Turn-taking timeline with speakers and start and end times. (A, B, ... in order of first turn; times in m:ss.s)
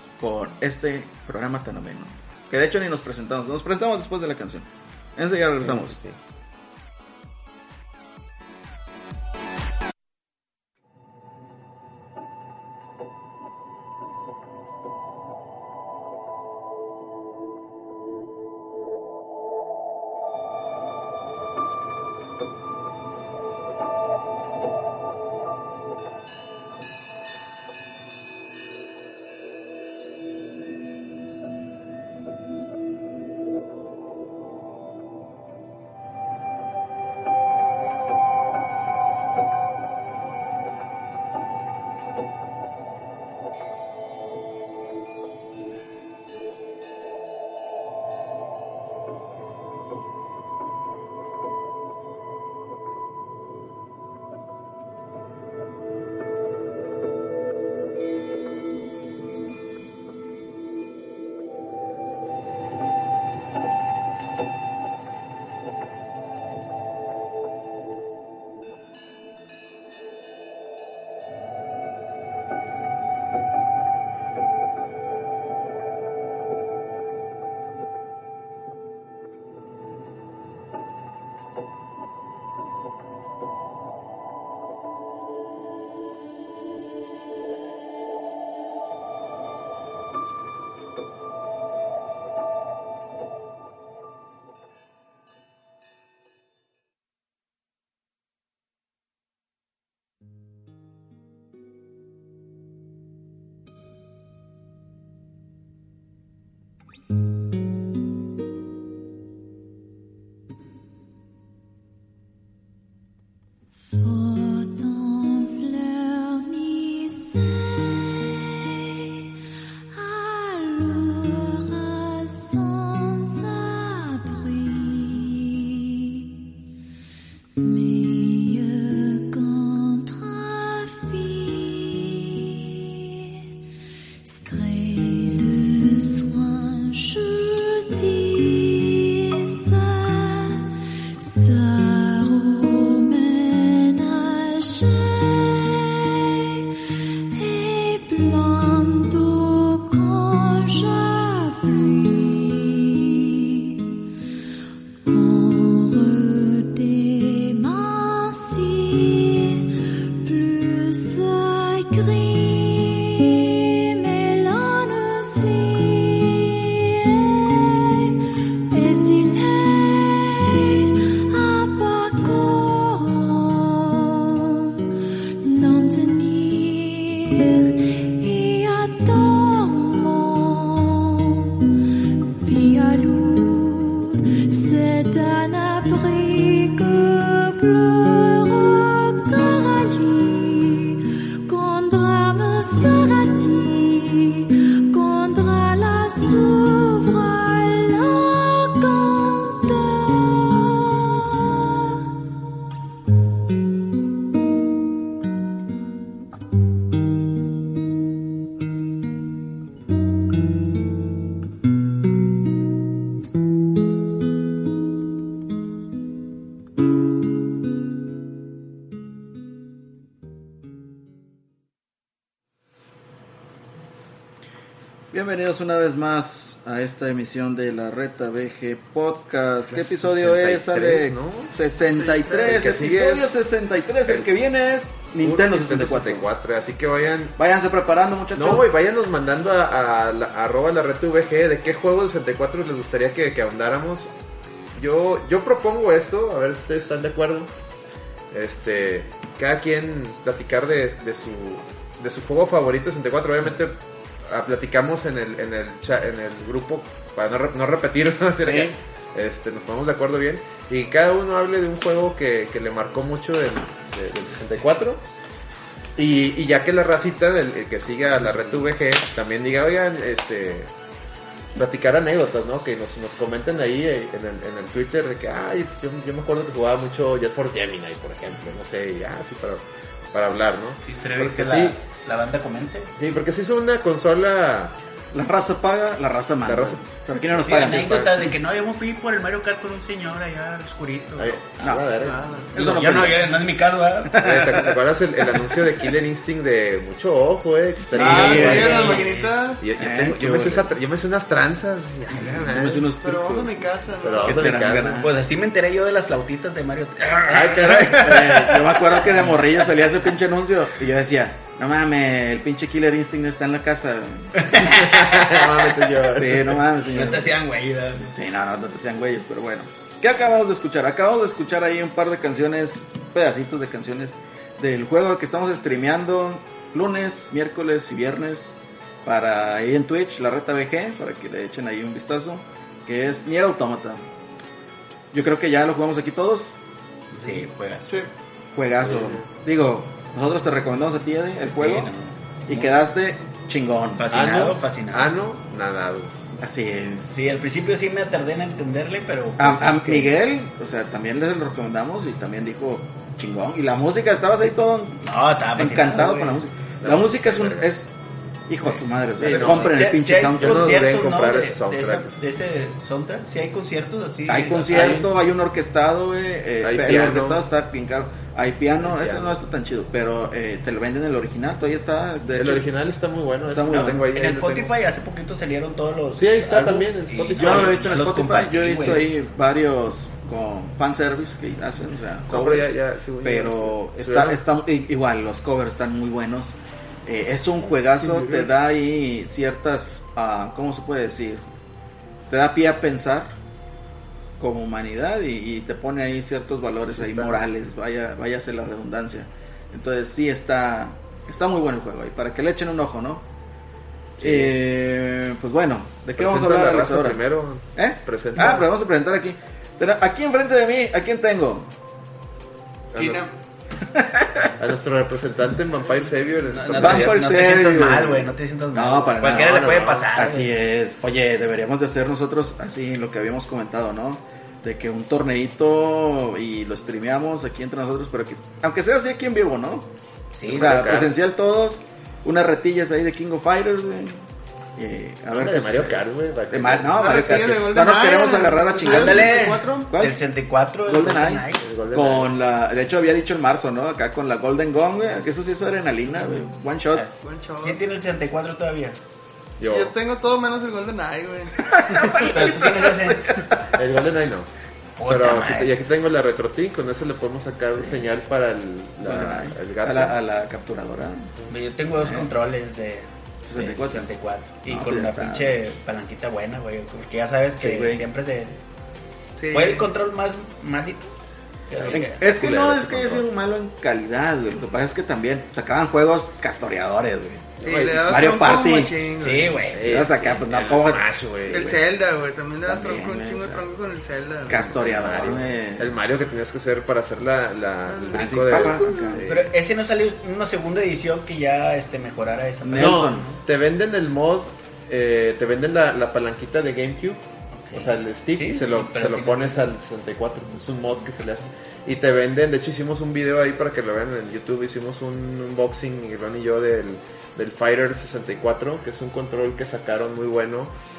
0:00.2-0:06.0 A
0:05.6-0:06.2 B
1:53.9-1:59.3 C
1:59.9-2:06.3 C
2:07.6-2:13.4 C
2:14.2-2:26.7 C
2:27.3-2:33.9 C
2:35.0-2:54.9 C
2:55.4-3:22.0 C
3:45.1-3:56.2 A
3:49.7-3:51.5 B
3:51.9-3:52.5 D
3:52.3-3:53.5 B
3:55.2-3:57.4 B
3:57.4-3:58.7 A
3:58.3-4:04.1 B
4:04.8-4:07.5 B
4:08.3-4:25.0 B
4:18.4-4:18.7 A
4:26.0-4:30.7 B
4:31.6-4:41.8 B
4:40.9-4:42.9 E
4:43.0-4:44.8 B
4:45.1-4:48.1 A
4:46.4-4:48.3 B
4:47.5-4:51.4 E
4:51.2-4:52.3 B
4:51.6-4:53.4 A
4:52.0-4:52.6 D
4:52.6-4:54.7 E
4:54.2-4:54.5 A
4:54.2-4:59.1 B
4:57.9-4:59.0 A
4:58.0-4:59.6 D
4:58.0-4:59.4 E
4:59.6-5:02.9 B
4:59.8-5:00.7 A
5:02.3-5:03.7 A
5:03.0-5:04.5 D
5:04.0-5:05.1 B
5:04.2-5:05.2 A
5:05.0-5:09.3 E
5:07.3-5:08.3 B
5:07.9-5:14.5 A
5:14.4-5:15.5 E
5:14.6-5:16.7 B
5:16.1-5:17.4 A
5:16.9-5:18.1 E
5:18.1-5:34.0 A
5:35.1-5:36.5 A
5:37.1-5:37.9 E
5:38.6-5:41.9 A
5:38.8-5:39.2 B
5:41.5-5:42.7 E
5:42.5-5:44.0 A
5:44.0-5:45.1 E
5:44.1-5:46.2 B
5:46.4-5:47.2 A
5:47.1-5:50.1 E
5:49.4-5:57.9 A
5:55.0-5:56.4 E
5:56.8-5:57.7 B
5:58.5-6:00.8 A
5:59.2-5:59.8 B
5:59.2-6:05.1 E
6:00.4-6:02.5 B
6:04.3-6:12.7 A
6:04.7-6:05.1 B
6:06.6-6:07.4 B
6:08.8-6:09.4 B
6:12.3-6:14.7 B
6:13.5-6:14.1 A
6:13.8-6:19.0 E
6:16.2-6:17.9 B
6:17.4-6:26.6 A
6:22.3-6:24.4 B
6:27.1-6:31.4 A
6:28.0-6:28.5 B
6:32.3-6:33.3 A
6:34.4-6:43.2 A
6:37.0-6:37.4 B
6:44.2-6:44.6 B
6:44.2-6:47.2 A
6:46.2-6:48.7 B
6:47.8-6:51.7 A
6:52.9-6:53.2 B
6:53.0-6:53.3 D
6:53.9-6:54.5 A
6:54.6-6:57.2 B
6:56.5-7:00.5 E
6:56.8-7:09.9 A
6:59.2-7:00.0 B
7:10.4-7:10.8 E
7:10.4-7:11.1 B
7:10.5-7:14.2 A
7:14.8-7:20.2 A
7:15.3-7:17.2 B
7:17.0-7:19.9 D
7:18.9-7:21.7 E
7:20.9-7:27.1 A
7:21.6-7:22.3 B
7:26.9-7:29.0 E
7:27.2-7:27.8 D
7:29.6-7:30.0 B
7:29.7-7:32.3 D
7:31.7-7:33.4 A
7:32.2-7:33.5 E
7:33.7-7:34.5 B
7:35.0-7:35.7 E
7:35.1-7:40.2 B
7:39.0-7:41.3 A
7:41.5-7:48.6 E
7:42.0-7:42.3 A
7:43.5-7:44.1 A
7:44.7-7:45.6 A
7:47.6-7:48.0 A
7:49.4-7:49.9 D
7:49.5-7:51.1 E
7:51.7-7:52.2 E
7:51.8-7:53.3 B
7:51.9-7:57.5 A
7:57.6-7:58.1 B
7:57.6-7:59.7 D
7:58.0-7:59.0 A
7:59.2-8:00.0 E
7:59.7-8:01.8 B
7:59.9-8:01.8 A
8:01.5-8:04.6 D
8:02.7-8:03.6 A
8:04.5-8:05.9 A
8:04.5-8:09.5 B
8:07.9-8:08.2 D
8:08.1-8:09.2 A
8:09.2-8:13.4 E
8:12.6-8:13.3 A
8:12.8-8:30.7 B
8:17.7-8:19.7 E